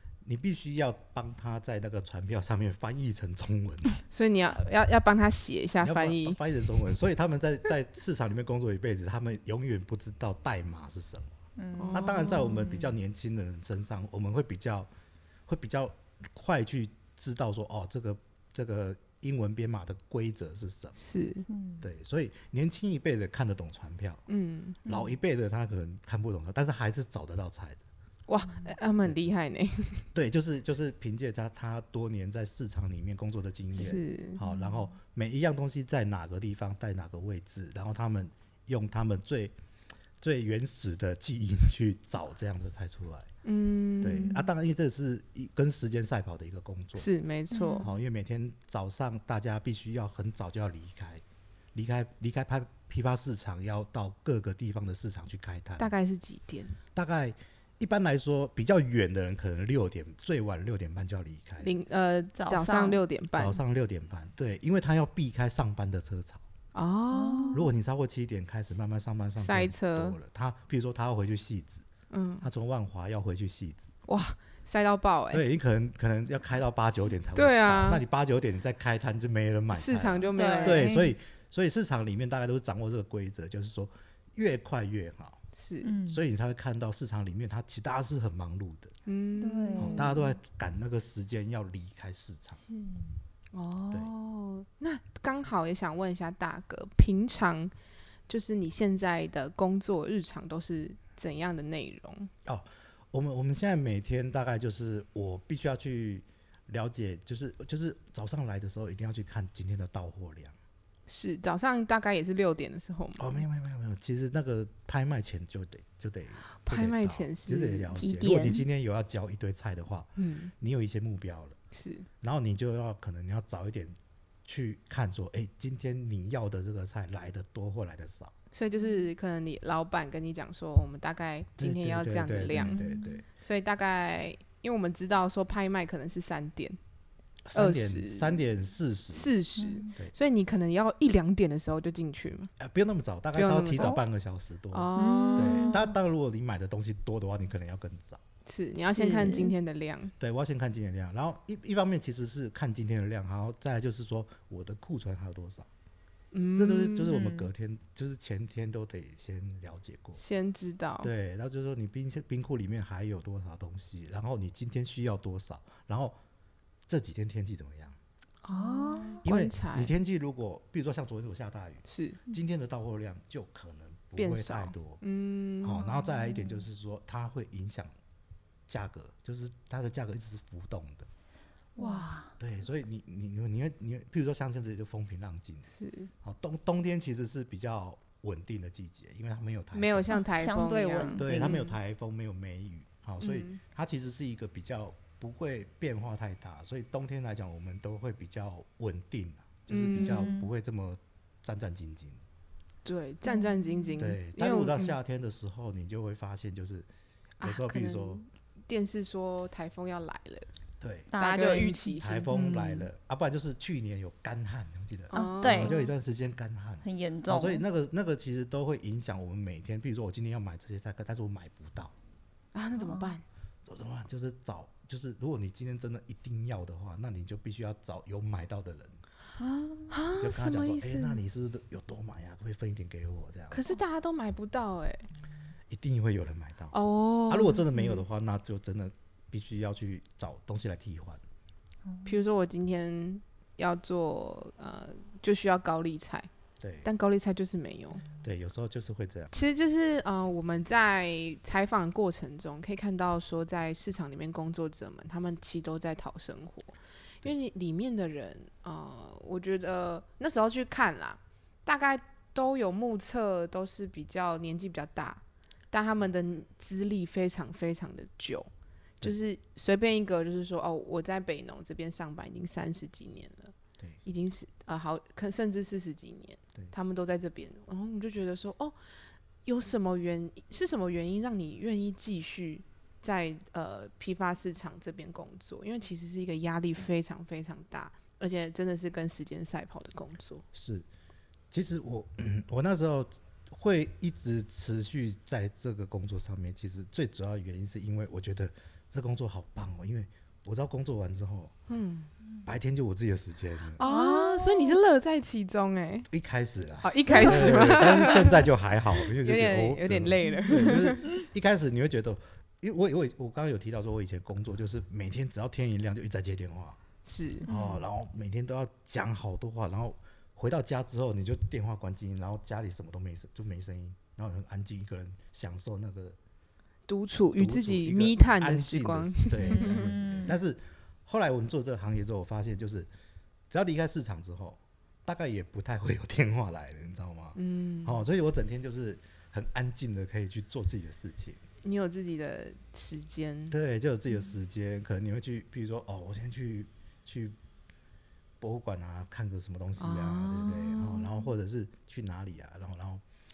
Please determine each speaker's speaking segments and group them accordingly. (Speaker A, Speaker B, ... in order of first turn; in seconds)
Speaker A: 0.2-4.0, 5.8-11.3, 11.9-14.9, 15.5-21.0, 21.8-24.2, 24.9-27.8, 30.1-39.5, 40.2-43.3, 44.0-47.1, 47.8-51.2, 51.7-55.9, 56.9-61.7, 63.3-66.4, 67.5-71.9, 72.4-73.9, 75.3-85.4, 86.1-89.0, 89.8-92.6, 102.5-110.5, 113.2-121.6, 122.2-128.3, 131.6-133.2, 137.4-139.3, 142.6-148.2, 150.2-155.7, 156.6-160.2, 161.0-166.2, 166.9-168.0, 169.2-175.0, 175.6-177.9, 178.7-181.1, 182.4-185.7, 186.2-190.1, 191.2-202.2, 204.0-206.9, 207.4-208.2, 210.8-211.1, 212.0-221.9, 223.6-229.0, 230.2-233.6, 235.7-236.8, 237.3-241.2, 246.6-246.9, 248.2-249.3, 290.5-290.9, 291.5-301.5, 302.4-303.8, 306.1-316.8, 317.5-326.2, 327.4-332.9, 333.5-341.4, 343.5-347.4, 348.4-353.0
Speaker B: 4.1-6.4, 11.8-12.8, 21.0-21.5, 24.3-24.8, 28.3-30.1, 33.8-34.4, 43.4-44.4, 47.0-47.9, 55.8-56.8, 61.6-63.6, 66.7-67.7, 69.4-70.2, 72.1-72.5, 74.1-75.5, 77.3-78.0, 79.7-81.1, 85.5-85.9, 89.1-90.2, 93.5-97.7, 98.3-102.3, 111.1-113.4, 116.6-118.1, 120.2-120.5, 121.7-122.1, 128.5-132.8, 133.4-136.8, 137.5-138.4, 139.1-142.5, 143.3-144.0, 144.7-145.8, 148.5-150.1, 156.3-157.4, 160.2-161.1, 168.4-169.9, 171.9-172.2, 174.2-175.9, 181.8-182.2, 185.7-186.1, 189.7-191.7, 193.2-193.6, 199.7-200.3, 202.8-205.0, 207.4-210.5, 211.2-212.4, 215.1-215.9, 222.5-223.2, 229.9-231.2, 233.5-235.1, 236.7-238.0, 242.1-246.3, 246.8-248.1, 249.3-268.5, 269.0-278.8, 279.4-290.4, 301.7-302.1, 303.8-306.1, 306.8-308.4, 309.0-311.1, 317.1-317.5, 326.9-329.8, 337.4-338.0, 341.6-343.6, 349.8-351.1
Speaker C: 11.6-12.5, 21.5-21.9, 34.4-34.9, 47.5-47.9, 62.4-63.0, 67.1-67.6, 80.3-81.1, 85.8-86.2, 89.4-90.3, 92.7-93.2, 118.0-118.6, 132.6-133.2, 139.6-139.9, 145.0-145.9, 148.9-149.5, 168.5-169.2, 176.1-176.4, 181.8-182.3, 190.2-191.6, 200.0-200.5, 203.3-203.5, 211.1-212.8, 215.1-215.8, 216.8-217.6, 222.8-223.1, 229.4-229.9, 303.8-304.8, 307.1-307.7, 310.2-310.7, 317.5-317.8, 329.4-330.4